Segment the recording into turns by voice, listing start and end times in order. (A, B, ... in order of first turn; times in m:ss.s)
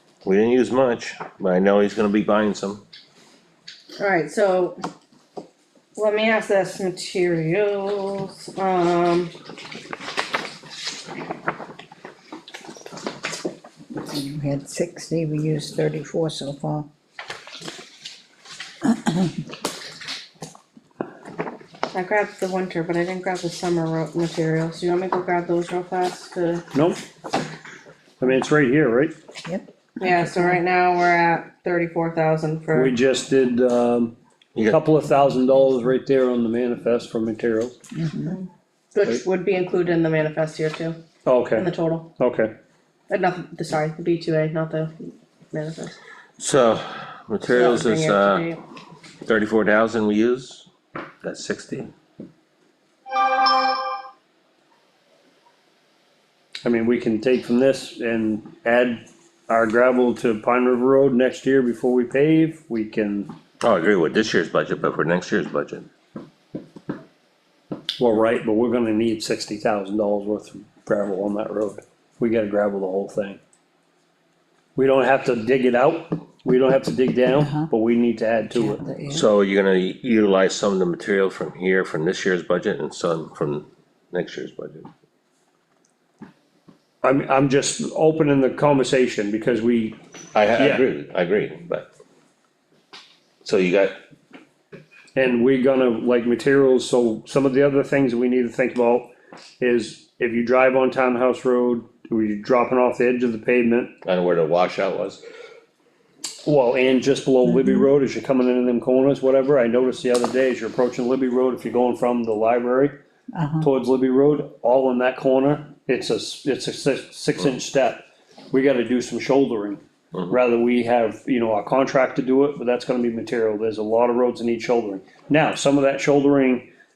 0:00.2-0:02.8 A
0:04.0-0:04.8 B
0:06.0-0:09.3 B
0:14.0-0:16.9 C
0:21.9-0:26.6 B
0:26.7-0:27.0 D
0:28.2-0:29.1 D
0:29.4-0:30.5 C
0:30.0-0:32.9 B
0:32.7-0:34.1 D
0:34.5-0:34.8 A
0:34.7-0:37.8 D
0:37.9-0:38.4 C
0:38.3-0:41.0 B
0:41.2-0:42.5 D
0:41.5-0:42.1 B
0:43.1-0:46.0 B
0:46.4-0:48.5 A
0:47.5-0:48.6 B
0:49.2-0:50.6 A
0:51.2-0:51.9 A
0:56.6-1:03.3 D
1:03.6-1:05.9 A
1:08.0-1:13.4 D
1:14.8-1:18.8 D
1:17.4-1:17.7 C
1:18.5-1:19.3 C
1:19.1-1:24.9 A
1:27.0-1:30.0 D
1:30.3-1:31.9 A
1:30.5-1:30.8 D
1:33.4-1:34.0 A
1:35.1-1:39.1 D
1:39.6-1:43.9 D
1:44.0-1:45.2 A
1:46.4-1:53.0 D
1:53.3-1:53.7 C
1:53.6-2:06.7 D